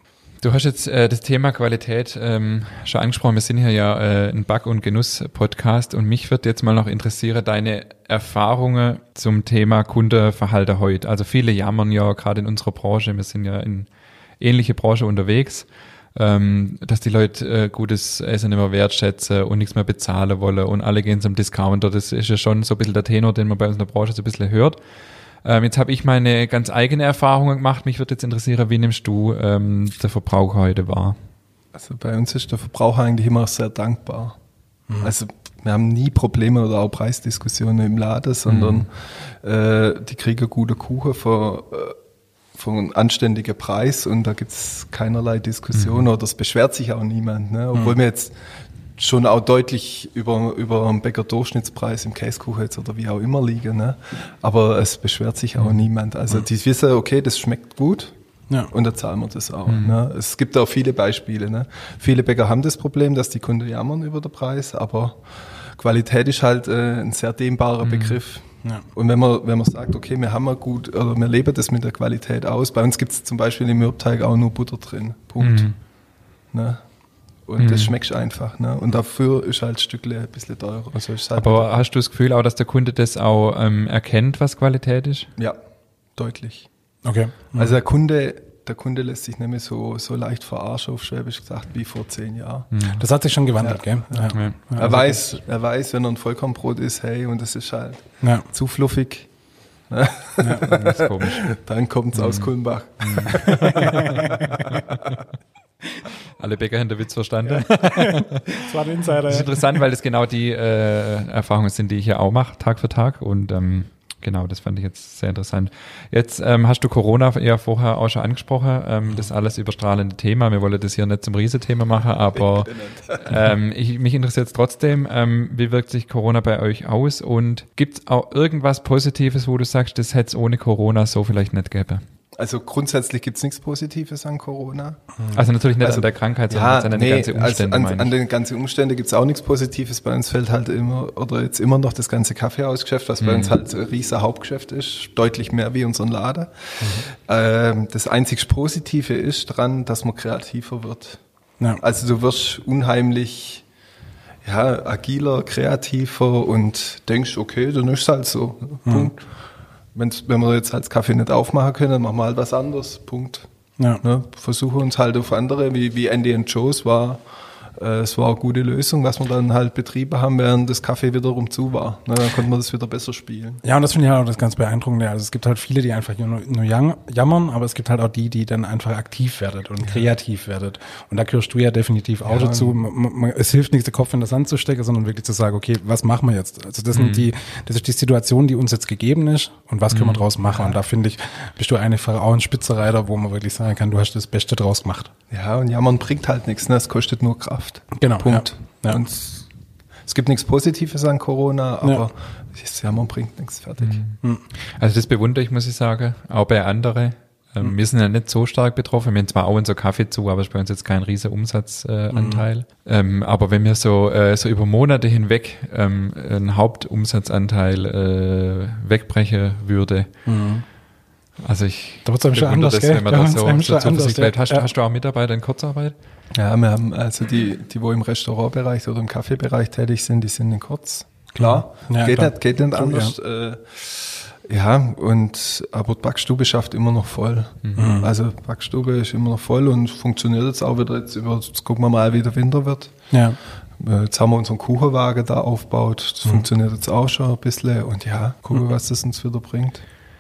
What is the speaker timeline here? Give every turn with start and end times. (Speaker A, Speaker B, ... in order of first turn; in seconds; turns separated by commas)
Speaker A: 0.4-13.9, Speaker A: 14.4-24.8, Speaker A: 25.4-31.2, Speaker B: 31.7-34.4, Speaker B: 35.0-42.0, Speaker A: 38.5-38.9, Speaker B: 42.5-48.3, Speaker A: 45.7-46.0, Speaker B: 49.0-58.1, Speaker B: 58.7-65.2, Speaker A: 59.7-60.0, Speaker B: 65.7-75.7, Speaker A: 67.8-68.2, Speaker A: 75.4-75.8, Speaker B: 76.5-76.8, Speaker B: 77.5-81.7, Speaker A: 77.6-77.9, Speaker A: 81.4-85.3, Speaker B: 86.2-86.7, Speaker C: 87.0-87.8, Speaker B: 87.5-92.7, Speaker A: 92.7-93.0, Speaker C: 92.9-95.0, Speaker B: 93.6-99.3, Speaker A: 94.3-95.2, Speaker C: 98.2-98.5, Speaker B: 99.9-105.1, Speaker C: 100.4-100.7, Speaker A: 100.6-101.5, Speaker A: 102.1-105.1, Speaker C: 103.6-104.7, Speaker A: 106.4-132.0, Speaker C: 107.5-109.6, Speaker B: 122.3-123.3, Speaker B: 132.3-135.0, Speaker A: 135.3-138.1, Speaker B: 135.8-146.5, Speaker A: 143.2-143.5, Speaker C: 146.8-147.1, Speaker B: 147.0-151.2, Speaker B: 151.8-153.6, Speaker B: 154.4-159.2, Speaker C: 158.8-159.1, Speaker B: 159.9-163.5, Speaker B: 164.0-167.2, Speaker B: 167.8-173.6, Speaker C: 173.6-195.1, Speaker B: 182.3-182.8, Speaker A: 186.9-187.3, Speaker A: 189.9-190.2, Speaker B: 195.3-199.5, Speaker C: 197.9-199.0, Speaker B: 200.1-204.0, Speaker A: 203.8-220.1, Speaker C: 212.1-212.4, Speaker C: 220.2-220.6, Speaker A: 221.4-225.9, Speaker C: 222.0-224.7, Speaker B: 226.3-242.9, Speaker C: 231.3-233.1, Speaker A: 237.6-237.9, Speaker C: 237.8-238.1, Speaker C: 243.1-243.4, Speaker B: 243.8-249.8